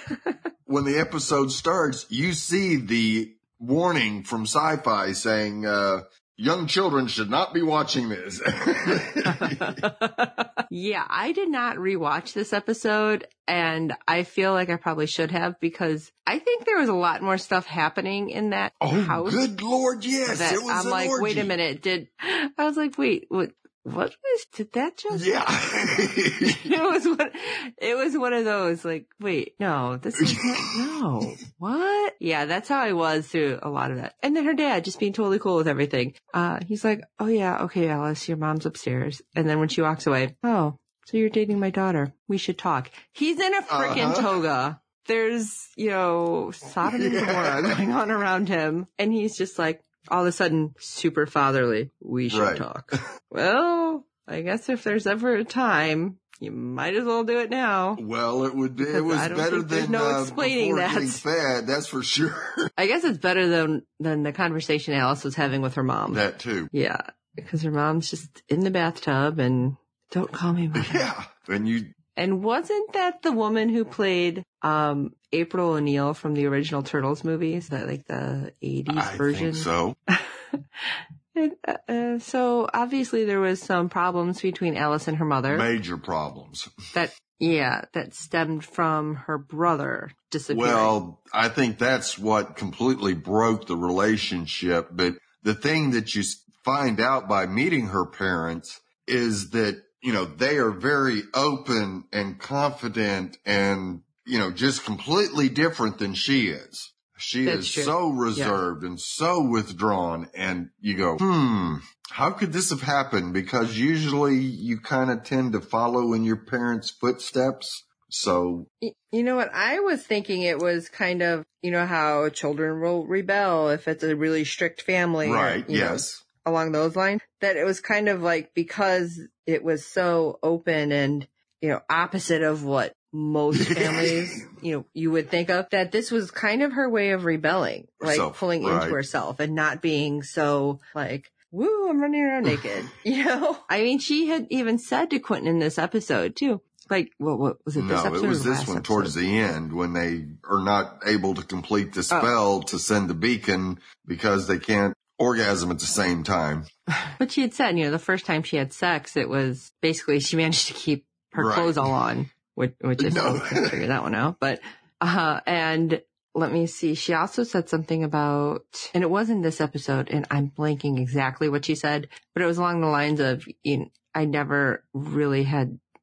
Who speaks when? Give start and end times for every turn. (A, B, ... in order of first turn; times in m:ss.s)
0:00.7-0:09.8 A
0:09.3-0:19.4 B
0:18.8-0:21.5 A
0:20.3-0:58.0 B
0:25.1-0:26.7 A
0:30.2-0:30.8 A
0:43.7-0:44.4 A
0:46.8-0:47.8 A
0:52.3-0:53.0 A
0:58.0-1:02.7 A
0:58.8-1:01.2 B
1:02.8-1:11.1 B
1:06.1-1:06.7 A
1:10.8-1:11.9 A
1:12.2-1:25.7 B
1:18.9-1:20.0 A
1:25.5-1:26.8 A
1:26.9-1:31.0 B
1:30.5-1:58.7 A
1:47.4-1:48.6 B
1:58.8-2:29.1 B
2:05.2-2:06.2 A
2:13.5-2:14.4 A
2:18.0-2:19.0 A
2:27.8-2:36.7 A
2:37.2-2:55.8 B
2:41.4-2:41.9 A
2:43.0-2:43.8 A